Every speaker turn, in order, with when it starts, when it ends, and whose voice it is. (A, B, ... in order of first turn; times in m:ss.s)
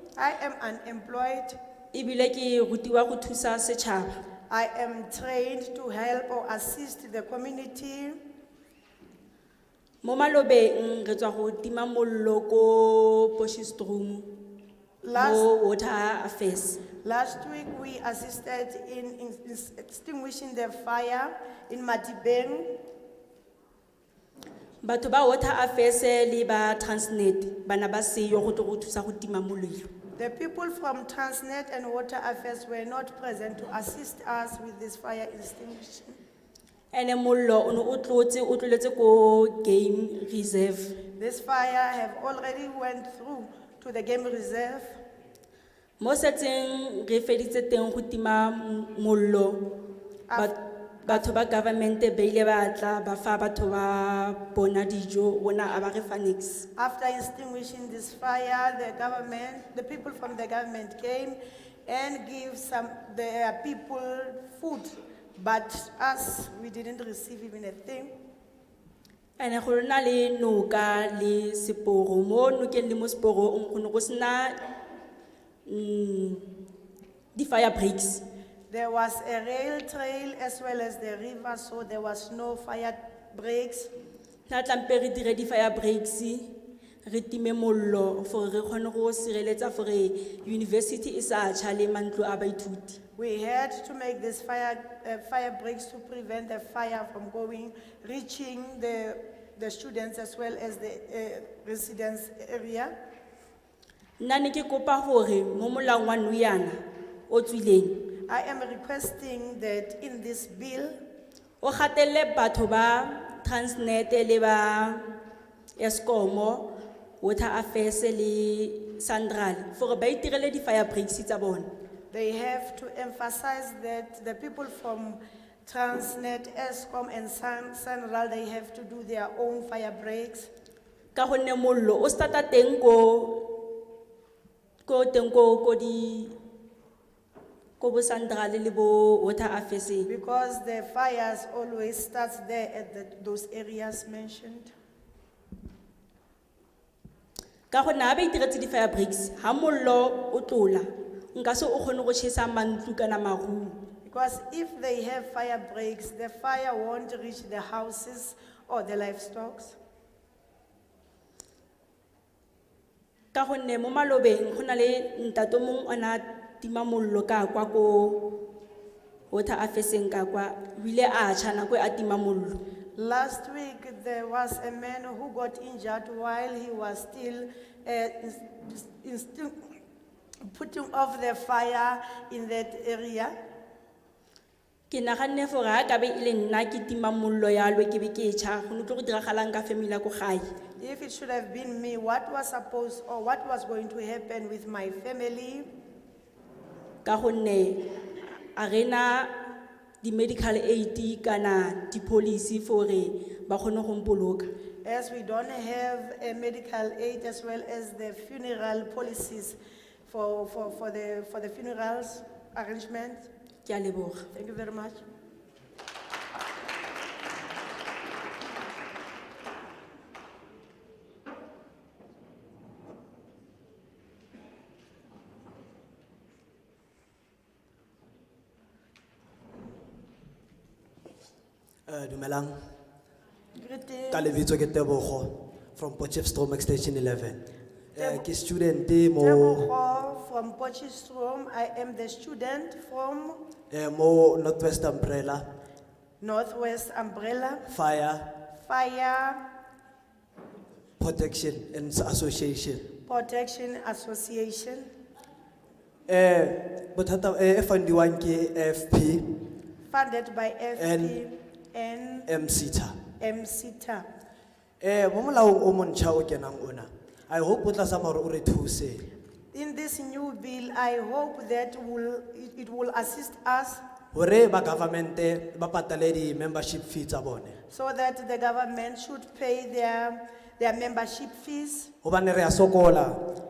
0:00.2-0:01.6 A
0:01.9-0:04.1 B
0:04.5-0:08.2 A
0:10.0-0:14.3 B
0:15.0-0:15.5 A
0:15.2-0:16.8 B
0:17.0-0:22.7 A
0:24.8-0:29.9 B
0:30.2-0:36.2 A
0:36.9-0:40.9 B
0:41.2-0:45.0 A
0:46.0-0:49.6 B
0:50.3-0:51.3 A
0:50.4-0:56.6 B
0:56.8-1:08.1 A
1:09.4-1:14.6 B
1:15.7-1:16.5 B
1:17.4-1:18.2 B
1:18.7-1:23.9 A
1:24.5-1:26.5 B
1:27.0-1:33.0 B
1:33.2-1:42.9 A
1:44.2-1:48.0 B
1:48.3-1:51.0 A
1:51.6-1:55.0 B
1:55.8-1:56.7 B
1:57.2-2:01.7 B
2:02.1-2:10.5 A
2:11.2-2:13.6 B
2:14.8-2:16.4 B
2:17.8-2:20.1 B
2:20.1-2:24.7 A
2:27.7-2:33.8 B
2:34.0-2:39.8 A
2:43.3-2:48.2 B
2:49.3-2:52.6 B
2:53.0-2:59.6 A
3:00.5-3:03.4 A
3:04.9-3:10.5 B
3:10.8-3:15.7 A
3:17.0-3:17.8 B
3:18.4-3:19.3 B
3:20.0-3:24.5 B
3:24.8-3:33.3 A
3:33.6-3:34.3 B
3:34.3-3:35.0 A
3:51.9-3:52.6 C
3:53.6-3:54.3 A
3:54.1-3:57.4 C
3:57.9-3:59.7 C
3:58.0-3:58.3 A
3:59.2-4:03.4 A
4:03.7-4:05.5 C
4:06.2-4:07.6 A
4:07.7-4:08.3 C
4:08.6-4:09.4 A
4:11.0-4:12.9 C
4:13.1-4:14.9 A
4:16.1-4:19.4 C
4:19.9-4:22.3 A
4:20.8-4:21.2 C
4:22.3-4:23.0 C
4:23.2-4:24.1 A
4:24.8-4:29.1 C
4:29.5-4:33.8 A
4:34.1-4:37.6 C
4:37.7-4:41.9 A
4:42.0-4:43.2 C